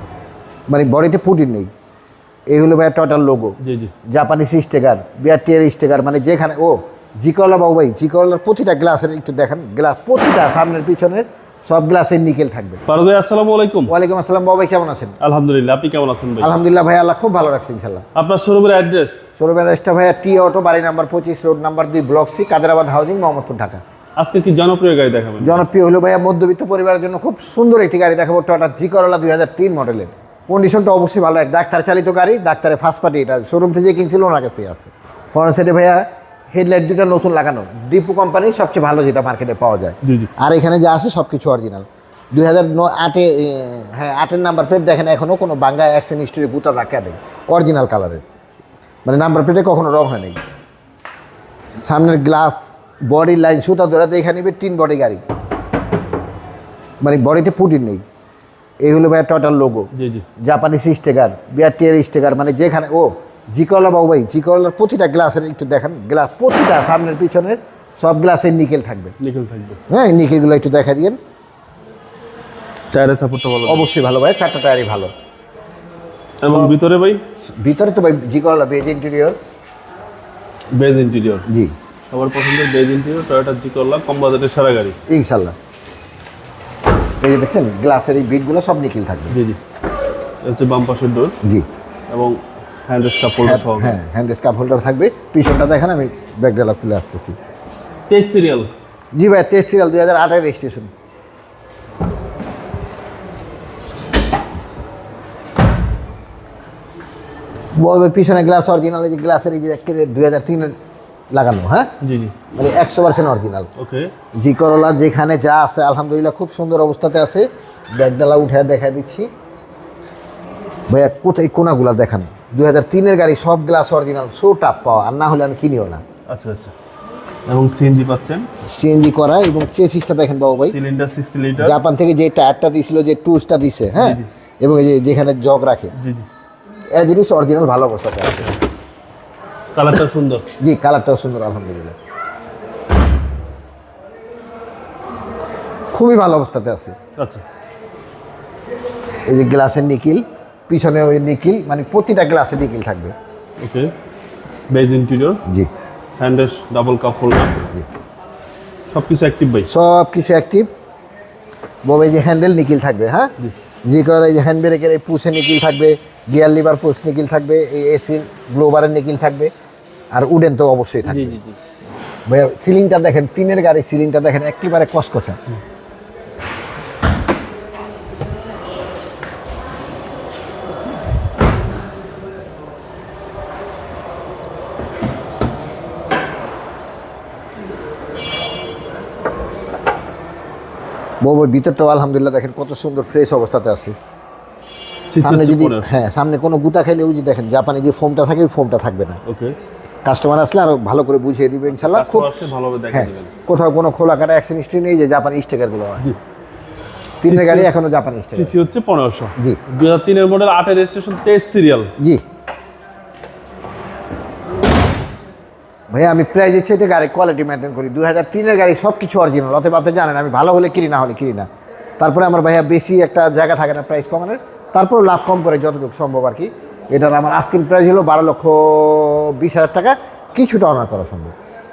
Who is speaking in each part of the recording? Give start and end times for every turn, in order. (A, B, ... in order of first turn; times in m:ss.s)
0:00.7-0:01.7 A
0:02.5-0:12.8 A
0:03.6-0:03.9 B
0:12.9-0:13.9 B
0:13.9-0:15.2 A
0:15.2-0:16.5 B
0:16.4-0:18.0 A
0:18.2-0:19.2 B
0:19.4-0:23.8 A
0:24.2-0:25.6 B
0:25.4-0:48.2 A
0:40.0-0:40.3 B
0:49.0-0:50.4 A
0:51.7-0:55.2 A
0:57.0-0:58.0 A
0:58.8-1:09.2 A
0:59.9-1:00.2 B
1:09.2-1:09.8 B
1:09.9-1:11.2 A
1:12.9-1:13.9 B
1:13.7-1:15.1 A
1:16.4-1:17.2 B
1:16.5-1:16.7 A
1:17.4-1:19.4 A
1:20.8-1:21.5 B
1:21.5-1:21.7 A
1:22.1-1:25.0 B
1:25.1-1:25.6 A
1:27.2-1:29.4 A
1:29.3-1:29.6 B
1:30.4-1:31.4 B
1:32.1-1:34.0 B
1:33.4-1:37.4 A
1:38.1-1:38.7 B
1:39.1-1:40.9 A
1:47.8-1:50.8 A
1:51.3-1:51.9 A
1:52.0-1:52.4 B
1:52.5-1:53.7 A
1:53.8-1:54.1 B
1:54.4-1:59.3 A
2:00.9-2:06.0 A
2:06.3-2:06.7 B
2:07.5-2:08.5 B
2:08.6-2:10.8 A
2:10.7-2:11.8 B
2:11.6-2:15.9 A
2:14.0-2:14.3 B
2:16.0-2:16.3 B
2:16.9-2:18.6 A
2:19.8-2:20.5 B
2:20.6-2:22.0 A
2:25.9-2:27.0 A
2:27.2-2:27.4 B
2:29.3-2:33.2 A
2:33.6-2:33.9 B
2:34.7-2:35.4 B
2:36.2-2:37.7 B
2:38.9-2:39.7 B
2:39.7-2:40.7 A
2:41.8-2:43.3 A
2:43.8-2:49.5 A
2:50.1-2:51.4 A
2:51.0-2:51.6 B
2:52.3-2:55.4 A
3:11.2-3:14.0 A
3:15.1-3:15.9 B
3:15.2-3:19.2 A
3:19.3-3:19.6 B
3:20.0-3:26.1 A
3:21.7-3:23.3 B
3:27.2-3:28.6 A
3:27.3-3:27.7 B
3:28.3-3:31.9 B
3:32.0-3:32.2 A
3:35.9-3:41.5 A
3:42.0-3:51.3 A